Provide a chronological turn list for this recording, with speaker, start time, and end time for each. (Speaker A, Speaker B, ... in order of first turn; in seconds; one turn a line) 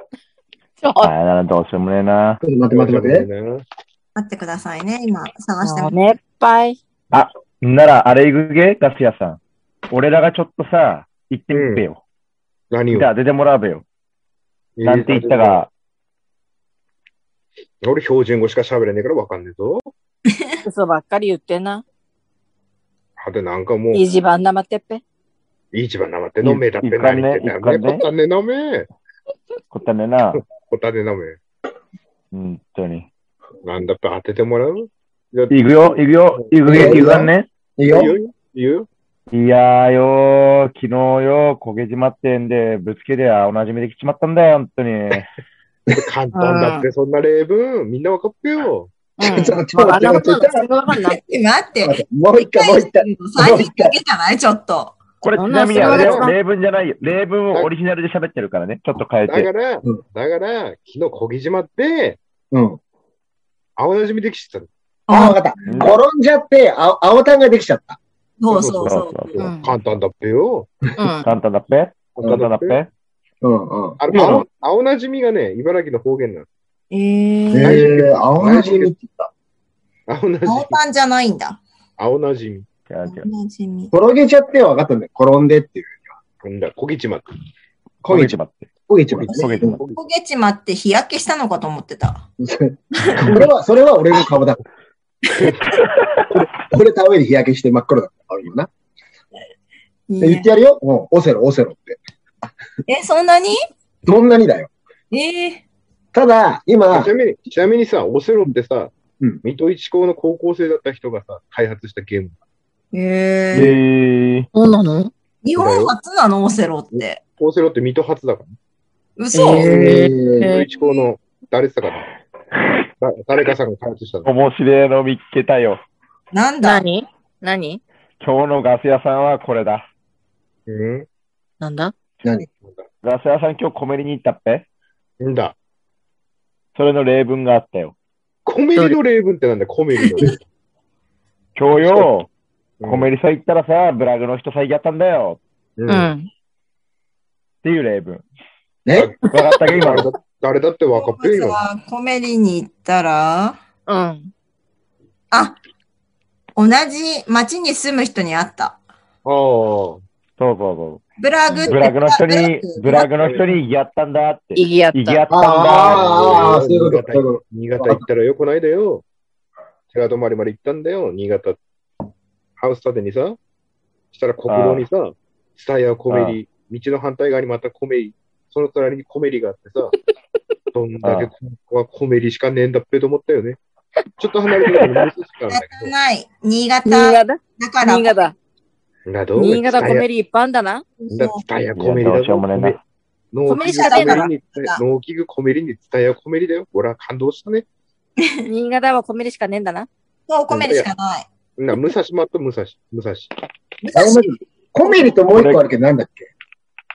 Speaker A: 0.8-1.1
Speaker B: 1.0-2.4
Speaker C: 2.4-3.3
Speaker D: 2.7-3.6
Speaker E: 4.1-5.9
Speaker A: 5.6-6.8
Speaker B: 7.1-9.4
Speaker B: 9.9-12.0
Speaker D: 11.5-11.8
Speaker D: 12.7-13.1
Speaker B: 12.9-13.8
Speaker D: 14.8-15.6
Speaker B: 14.8-15.7
Speaker D: 17.8-19.9
Speaker A: 20.6-21.8
Speaker D: 23.2-24.1
Speaker A: 23.9-25.0
Speaker D: 25.7-28.9
Speaker B: 26.4-28.0
Speaker B: 29.7-30.4
Speaker D: 30.3-31.4
Speaker B: 32.3-33.1
Speaker D: 33.6-37.1
Speaker B: 35.5-37.5
Speaker C: 36.6-38.1
Speaker D: 37.9-38.9
Speaker B: 39.3-45.3
Speaker D: 45.9-48.9
Speaker A: 46.3-46.9
Speaker A: 49.2-51.2
Speaker C: 49.2-50.6
Speaker E: 51.0-55.0
Speaker C: 51.8-53.9
Speaker B: 55.2-59.5
Speaker A: 55.4-56.4
Speaker D: 55.8-56.2
Speaker D: 59.3-62.2
Speaker C: 62.5-62.8
Speaker D: 63.8-64.7
Speaker E: 65.1-65.4
Speaker C: 65.1-68.0
Speaker E: 68.4-69.3
Speaker D: 68.5-70.7
Speaker B: 68.8-69.3
Speaker A: 69.4-69.7
Speaker A: 71.0-71.3
Speaker B: 71.2-72.9
Speaker D: 72.2-72.8
Speaker C: 73.4-74.4
Speaker D: 74.0-76.5
Speaker B: 74.1-74.4
Speaker E: 76.9-77.8
Speaker C: 77.5-79.3
Speaker D: 77.6-78.9
Speaker D: 80.1-80.8
Speaker E: 80.5-81.6
Speaker D: 82.0-82.7
Speaker B: 82.9-83.3
Speaker E: 83.0-83.9
Speaker C: 83.9-86.1
Speaker D: 86.4-87.2
Speaker C: 88.0-88.3
Speaker B: 88.1-88.7
Speaker C: 88.9-89.8
Speaker D: 89.2-90.0
Speaker B: 89.3-89.8
Speaker E: 89.9-92.2
Speaker C: 92.4-94.6
Speaker E: 93.0-93.4
Speaker C: 96.3-98.7
Speaker E: 100.1-100.5
Speaker C: 100.2-102.0
Speaker E: 102.9-103.5
Speaker C: 104.0-104.7
Speaker E: 105.1-105.6
Speaker C: 106.1-107.1
Speaker D: 106.9-112.4
Speaker E: 112.9-113.8
Speaker B: 113.5-114.5
Speaker A: 114.5-115.1
Speaker E: 115.4-117.2
Speaker D: 115.5-115.9
Speaker D: 116.9-118.5
Speaker E: 119.2-119.7
Speaker A: 119.3-120.6
Speaker C: 119.5-120.5
Speaker D: 120.4-122.1
Speaker D: 123.0-124.3
Speaker B: 124.2-125.8
Speaker E: 126.3-126.8
Speaker A: 126.6-127.8
Speaker B: 128.2-129.8
Speaker D: 130.7-131.1
Speaker A: 131.6-131.9
Speaker B: 133.0-134.6
Speaker D: 135.2-135.5
Speaker B: 136.7-137.9
Speaker D: 138.4-140.4
Speaker B: 141.6-142.3
Speaker D: 141.8-142.1
Speaker D: 142.8-143.1
Speaker B: 142.8-145.4
Speaker D: 145.8-146.1
Speaker A: 145.9-146.3
Speaker B: 147.6-148.2
Speaker C: 148.8-149.2
Speaker D: 148.9-151.6
Speaker B: 149.3-150.1
Speaker E: 150.9-153.6
Speaker A: 153.9-154.3
Speaker E: 155.3-155.6
Speaker E: 156.6-158.8
Speaker D: 159.2-160.0
Speaker B: 160.4-161.0
Speaker E: 161.2-163.1
Speaker B: 161.7-166.2
Speaker D: 163.2-163.4
Speaker A: 164.5-165.2
Speaker C: 165.3-168.0
Speaker D: 165.7-169.0
Speaker D: 169.9-171.6
Speaker D: 172.6-173.4
Speaker D: 174.1-179.9
Speaker B: 174.5-174.8
Speaker B: 176.1-176.4
Speaker D: 180.7-183.6
Speaker B: 181.0-181.3
Speaker D: 184.2-185.9
Speaker E: 185.5-188.2
Speaker A: 186.8-188.3
Speaker D: 189.1-190.0
Speaker A: 189.3-190.8
Speaker E: 191.0-191.4
Speaker D: 191.1-192.8
Speaker B: 191.8-192.8
Speaker D: 193.3-197.6
Speaker A: 193.5-194.3
Speaker E: 193.6-194.8
Speaker A: 198.4-199.9
Speaker E: 200.3-201.3
Speaker D: 200.5-200.9
Speaker D: 201.6-203.3
Speaker E: 203.8-204.3
Speaker C: 203.9-206.3
Speaker B: 205.3-205.6